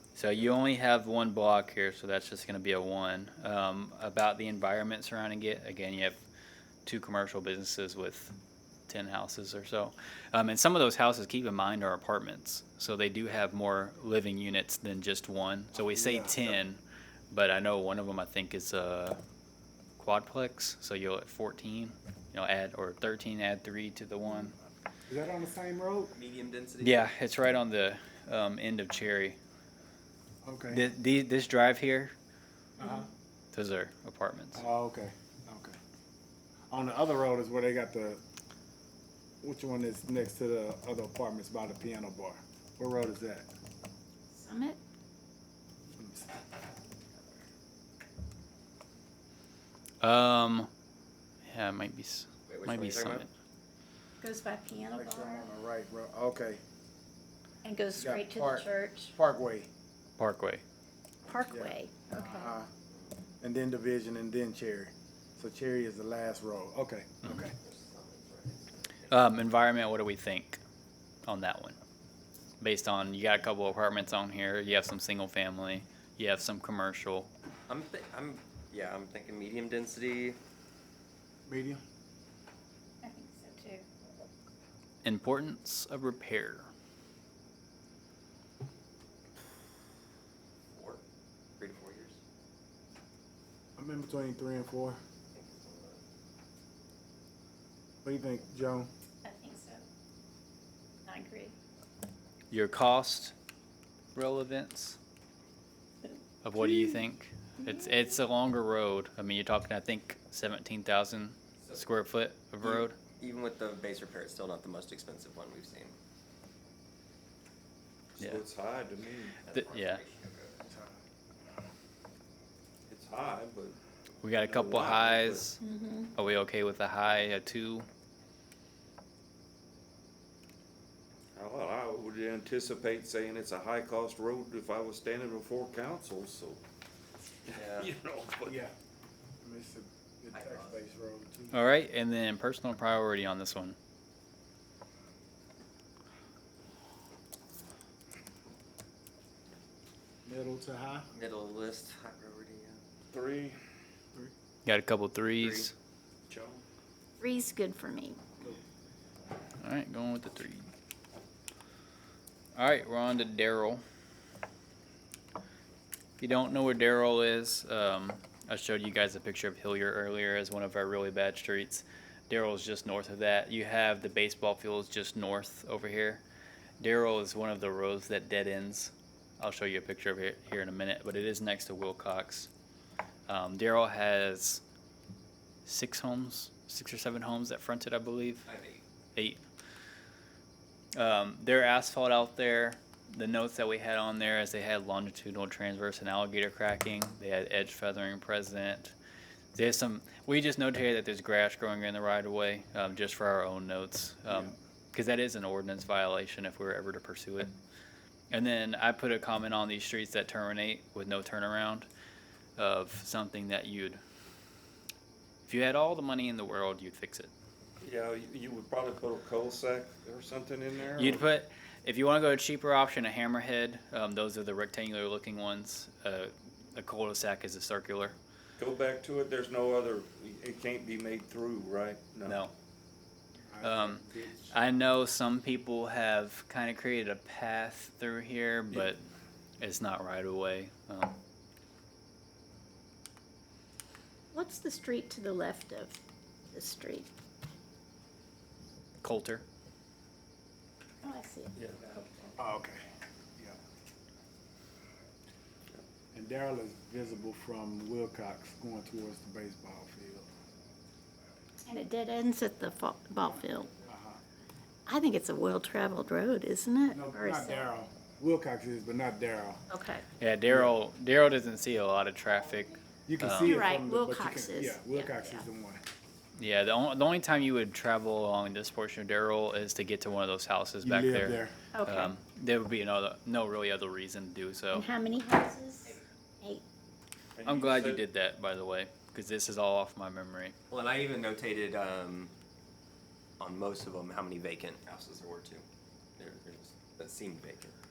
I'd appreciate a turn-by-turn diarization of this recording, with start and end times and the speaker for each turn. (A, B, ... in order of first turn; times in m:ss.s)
0:00.2-0:06.2 A
0:06.8-0:08.3 A
0:08.9-0:19.2 A
0:15.8-0:16.6 B
0:20.0-0:24.5 A
0:25.1-0:26.1 B
0:26.1-0:27.0 C
0:26.8-0:29.4 A
0:30.4-0:30.8 B
0:30.7-0:32.1 A
0:32.8-0:33.1 B
0:33.5-0:34.6 A
0:34.5-0:35.8 B
0:36.7-0:38.2 B
0:39.4-0:43.5 B
0:44.3-0:44.8 D
0:46.0-0:46.4 B
0:50.0-0:50.7 A
0:51.5-0:53.3 A
0:52.5-0:53.3 C
0:54.2-0:55.4 D
0:54.9-0:56.6 B
0:57.6-0:59.1 D
0:58.0-0:59.7 B
1:00.2-1:00.6 A
1:01.3-1:02.5 D
1:01.5-1:02.7 B
1:03.4-1:07.5 B
1:07.6-1:09.1 C
1:09.1-1:10.6 A
1:11.2-1:11.8 A
1:12.6-1:17.3 A
1:17.7-1:20.4 C
1:21.5-1:21.8 B
1:23.0-1:23.8 D
1:25.0-1:26.7 A
1:30.7-1:31.0 C
1:31.6-1:32.2 C
1:33.8-1:35.0 B
1:35.3-1:36.0 C
1:38.0-1:38.9 B
1:39.2-1:39.8 D
1:41.0-1:41.5 D
1:42.5-1:43.3 A
1:44.1-1:45.0 A
1:46.4-1:53.0 A
1:52.6-1:55.9 C
1:58.2-1:59.4 E
1:59.4-2:00.6 C
1:59.5-2:00.0 A
2:00.7-2:01.0 B
2:02.9-2:03.8 E
2:04.2-2:05.6 A
2:04.4-2:05.5 E
2:05.6-2:06.1 D
2:06.1-2:07.8 A
2:11.3-2:16.6 E
2:17.5-2:18.6 E
2:17.5-2:17.9 C
2:18.4-2:18.7 B
2:19.4-2:21.6 B
2:20.3-2:20.7 C
2:21.5-2:23.8 A
2:30.2-2:31.1 B
2:31.1-2:32.8 C
2:33.1-2:33.5 E
2:34.6-2:35.7 A
2:35.4-2:35.7 C
2:36.3-2:36.6 E
2:37.2-2:38.2 D
2:39.6-2:40.6 A
2:42.5-2:43.8 A
2:46.2-2:56.2 A
2:56.8-3:02.5 A
3:03.3-3:04.6 A
3:05.6-3:08.5 A
3:08.5-3:08.8 C
3:09.1-3:09.4 A
3:10.9-3:18.9 A
3:19.5-3:27.5 A
3:28.3-3:31.9 A
3:32.6-3:34.0 A
3:35.4-3:37.3 A
3:37.8-3:41.2 E
3:41.0-3:48.1 A
3:48.6-3:52.4 E
3:52.2-3:52.5 A
3:53.5-3:54.5 B
3:53.6-3:59.0 A
3:59.6-4:01.2 A
4:04.3-4:06.0 D
4:06.5-4:07.1 D
4:09.0-4:09.4 A
4:11.0-4:12.3 D
4:11.6-4:11.9 E
4:12.4-4:12.8 B
4:16.1-4:20.3 B
4:21.7-4:23.7 D
4:23.8-4:24.2 B
4:24.8-4:27.6 D
4:26.9-4:29.6 B
4:29.7-4:30.0 D
4:30.2-4:33.7 A
4:30.5-4:30.7 B
4:33.1-4:35.8 B
4:33.4-4:35.4 D
4:36.4-4:44.9 A
4:40.8-4:41.6 B
4:41.7-4:42.1 D
4:44.7-4:46.6 D
4:47.4-4:48.0 E
4:47.4-4:50.5 A
4:50.7-4:52.3 C
4:53.4-4:55.6 C
4:56.2-4:57.7 C